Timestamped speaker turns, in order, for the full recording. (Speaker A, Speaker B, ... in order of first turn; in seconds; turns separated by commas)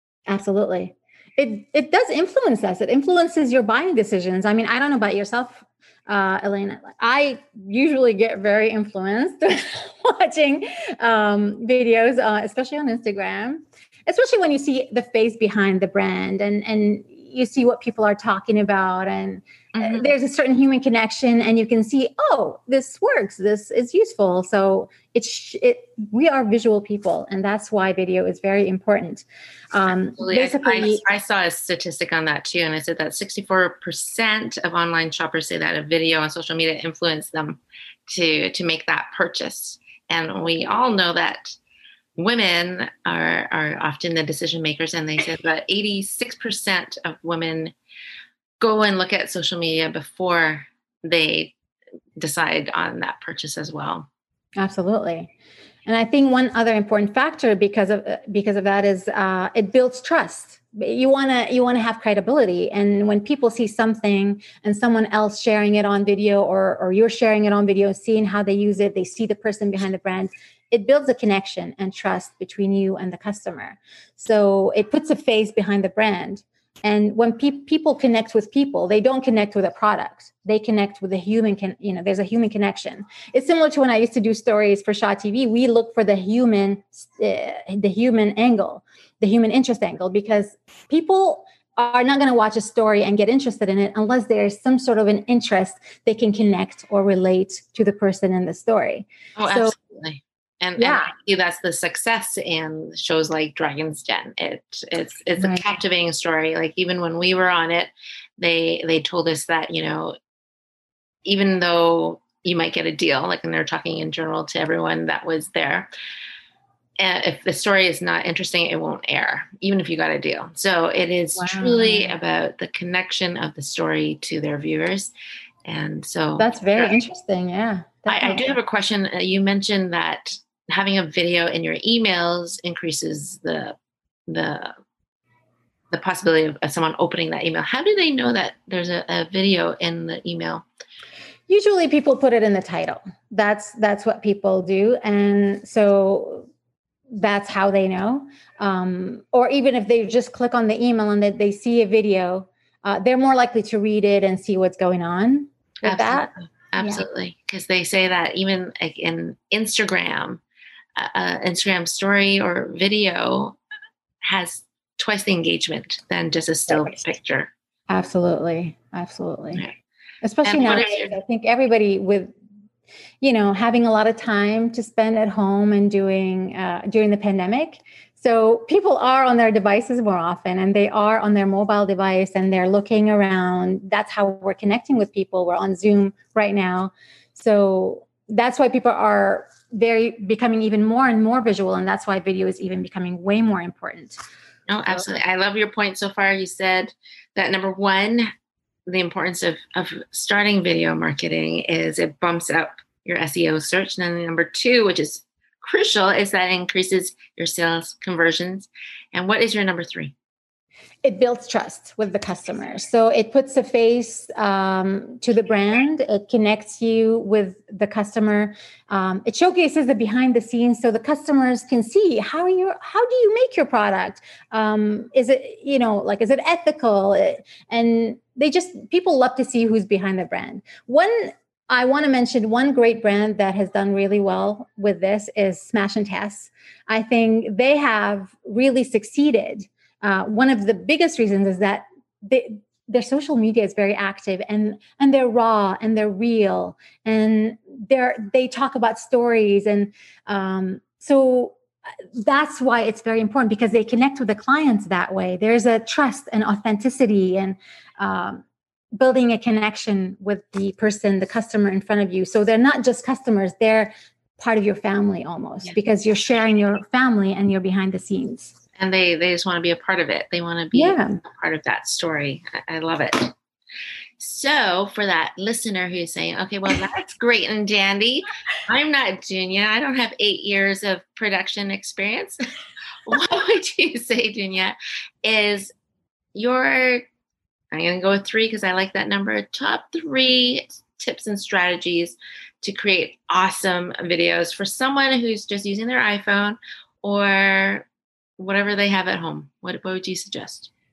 Speaker A: 0.3-31.0, Speaker B: 19.7-20.1, Speaker B: 30.2-41.6, Speaker B: 42.2-47.7, Speaker B: 48.6-51.5, Speaker B: 52.2-54.1, Speaker A: 54.6-55.3, Speaker A: 55.9-99.8, Speaker B: 99.4-110.2, Speaker A: 100.8-101.1, Speaker A: 105.4-105.7, Speaker B: 111.2-115.9, Speaker B: 117.0-125.1, Speaker A: 121.4-122.2, Speaker B: 125.7-127.0, Speaker A: 126.4-128.6, Speaker B: 128.1-133.8, Speaker B: 134.3-134.7, Speaker B: 135.9-140.6, Speaker A: 141.5-146.5, Speaker A: 147.1-157.0, Speaker B: 155.8-160.4, Speaker B: 161.0-163.6, Speaker B: 164.2-167.5, Speaker A: 166.7-167.0, Speaker A: 167.9-169.6, Speaker A: 170.2-172.3, Speaker B: 170.4-171.2, Speaker A: 173.2-194.2, Speaker B: 194.7-198.3, Speaker A: 194.9-195.1, Speaker B: 198.9-210.1, Speaker A: 211.0-251.6, Speaker A: 252.1-258.4, Speaker A: 258.9-268.6, Speaker B: 268.8-273.3, Speaker A: 270.7-271.2, Speaker B: 274.2-282.4, Speaker B: 283.1-285.7, Speaker B: 286.4-287.1, Speaker B: 287.7-297.9, Speaker B: 298.4-300.7